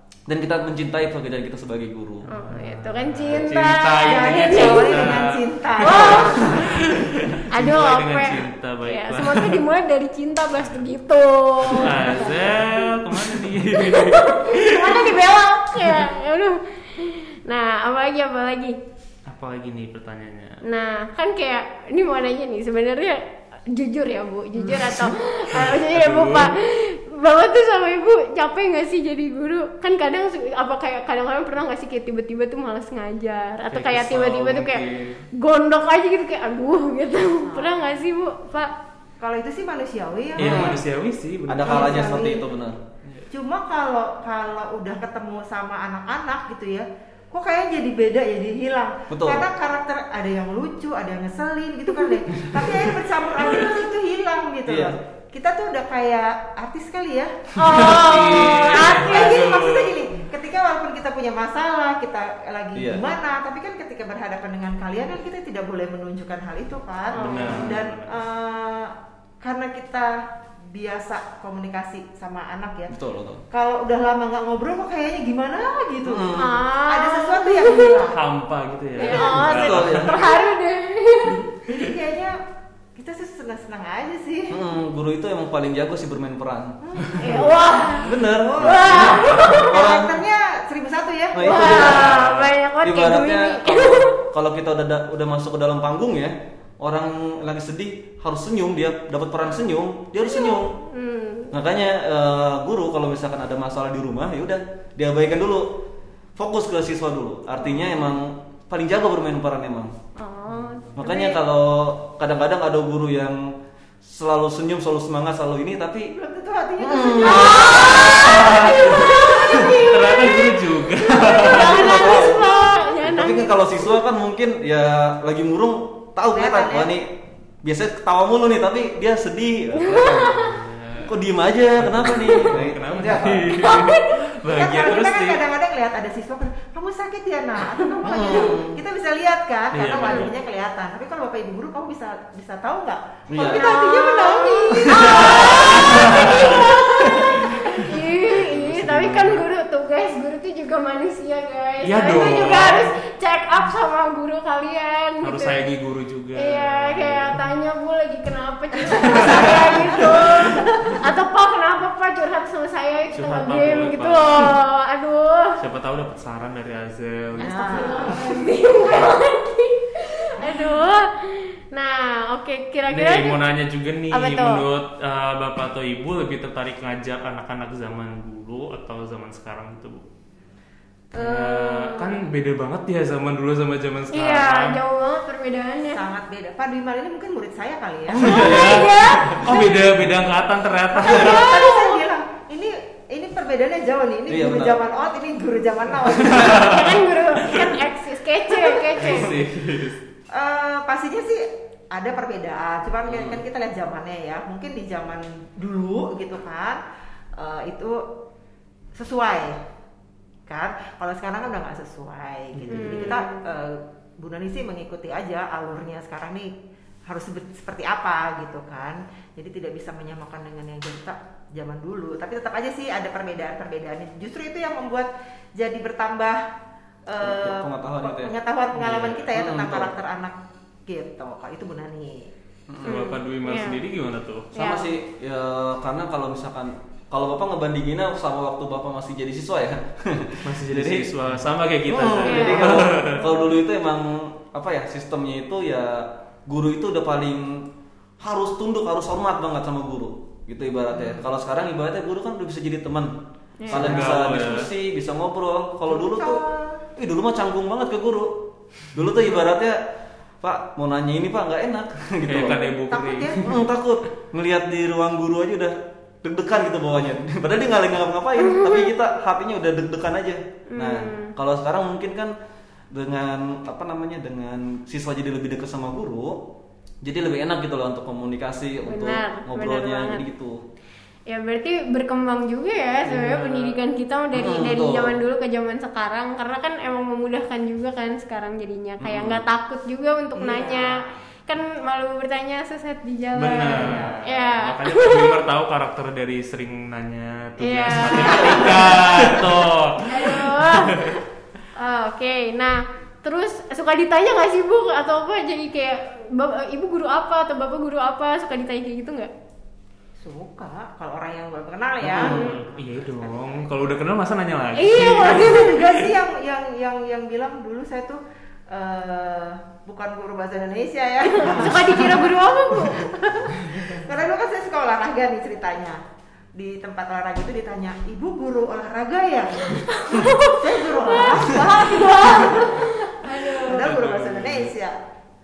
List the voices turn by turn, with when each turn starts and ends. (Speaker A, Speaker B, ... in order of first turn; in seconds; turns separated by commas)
Speaker A: 0.3-2.3, Speaker B: 2.2-9.6, Speaker C: 2.3-5.2, Speaker D: 4.0-6.9, Speaker C: 5.8-6.8, Speaker C: 7.5-12.8, Speaker B: 10.6-10.8, Speaker B: 11.7-15.2, Speaker C: 13.7-18.8, Speaker B: 19.2-20.6, Speaker C: 20.6-34.8, Speaker B: 24.6-26.5, Speaker B: 33.7-35.2, Speaker C: 35.3-38.7, Speaker D: 37.4-37.8, Speaker D: 39.2-40.8, Speaker B: 40.4-42.1, Speaker A: 40.4-40.8, Speaker A: 41.5-42.8, Speaker D: 41.6-42.5, Speaker D: 43.3-72.9, Speaker A: 49.1-49.5, Speaker A: 54.6-55.0, Speaker C: 57.5-59.4, Speaker B: 57.6-60.0, Speaker A: 62.7-63.0, Speaker C: 67.1-67.8, Speaker B: 67.1-68.2, Speaker A: 72.9-73.4, Speaker D: 73.5-78.2, Speaker A: 76.0-76.6, Speaker C: 76.3-78.0, Speaker B: 78.1-80.2, Speaker C: 79.0-81.4, Speaker D: 79.0-79.3, Speaker A: 79.3-80.2, Speaker D: 81.7-82.4, Speaker D: 82.9-84.6, Speaker A: 84.5-90.2, Speaker D: 86.8-92.0, Speaker C: 87.2-89.7, Speaker A: 91.3-100.8, Speaker C: 91.4-94.1, Speaker B: 92.1-92.4, Speaker C: 100.2-101.5, Speaker A: 101.5-105.7, Speaker A: 106.4-109.9, Speaker C: 110.2-111.4, Speaker B: 110.5-110.8, Speaker A: 111.0-116.1, Speaker D: 116.1-119.6, Speaker A: 116.8-119.8, Speaker C: 117.2-123.9, Speaker B: 117.9-118.2, Speaker B: 119.8-122.0, Speaker A: 121.4-122.5, Speaker A: 123.0-130.4, Speaker D: 126.3-126.9, Speaker C: 129.8-130.5, Speaker B: 130.2-131.2, Speaker A: 131.0-133.7, Speaker B: 131.7-135.4, Speaker C: 133.6-134.2, Speaker D: 134.4-146.7, Speaker A: 138.0-138.8, Speaker B: 139.7-140.3, Speaker C: 140.0-140.3, Speaker A: 143.3-143.7, Speaker C: 143.4-155.6, Speaker A: 144.9-147.3, Speaker B: 145.2-146.6, Speaker B: 147.9-149.4, Speaker B: 151.8-152.9, Speaker B: 155.2-157.4, Speaker C: 156.3-165.6, Speaker B: 159.0-160.9, Speaker D: 159.0-161.0, Speaker B: 163.1-164.6, Speaker B: 165.6-168.2, Speaker D: 167.4-168.4, Speaker C: 167.4-173.4, Speaker B: 172.9-180.0, Speaker C: 174.1-174.6, Speaker B: 181.1-184.8, Speaker C: 181.2-182.1, Speaker C: 184.1-186.0, Speaker D: 185.9-188.6, Speaker A: 188.1-189.5, Speaker C: 188.2-189.8, Speaker B: 188.2-191.6, Speaker D: 189.5-189.8, Speaker D: 190.9-197.0, Speaker C: 191.0-192.0, Speaker A: 194.3-194.8, Speaker B: 196.3-197.0, Speaker C: 196.3-199.3, Speaker D: 198.5-199.0, Speaker B: 199.0-200.0, Speaker A: 199.0-199.4, Speaker D: 200.3-206.8, Speaker A: 203.1-203.4, Speaker D: 207.3-208.0, Speaker D: 208.9-209.6, Speaker D: 210.5-216.5, Speaker B: 212.5-213.0, Speaker C: 212.7-213.4, Speaker D: 217.1-226.4, Speaker D: 227.1-232.3, Speaker A: 227.2-229.9, Speaker A: 232.7-233.0, Speaker C: 232.8-233.8, Speaker B: 232.8-234.5, Speaker A: 234.5-241.1, Speaker C: 234.5-234.9, Speaker B: 240.4-243.2, Speaker A: 241.9-247.7, Speaker C: 242.2-242.8, Speaker A: 248.2-253.1, Speaker C: 253.6-254.1, Speaker A: 253.7-256.4, Speaker B: 253.7-254.7, Speaker D: 255.9-256.8, Speaker A: 256.9-259.8, Speaker A: 260.4-262.6, Speaker B: 262.2-263.5, Speaker D: 262.9-263.6, Speaker A: 263.4-272.4, Speaker C: 268.4-268.9, Speaker C: 270.7-271.3, Speaker A: 272.9-276.4, Speaker A: 277.0-280.6, Speaker C: 278.8-280.2, Speaker C: 281.3-295.4, Speaker B: 283.1-283.7, Speaker A: 284.3-285.2, Speaker A: 289.0-289.4, Speaker D: 290.3-291.0, Speaker B: 293.4-301.2, Speaker D: 293.7-294.2, Speaker C: 297.6-299.1, Speaker A: 298.1-299.5, Speaker C: 300.0-301.2, Speaker C: 301.8-309.3, Speaker D: 310.2-313.9, Speaker A: 312.0-312.4, Speaker B: 312.1-316.1, Speaker C: 314.8-315.8, Speaker D: 315.0-326.0, Speaker C: 321.2-323.7, Speaker D: 326.5-335.0, Speaker C: 329.9-333.9, Speaker B: 333.7-334.7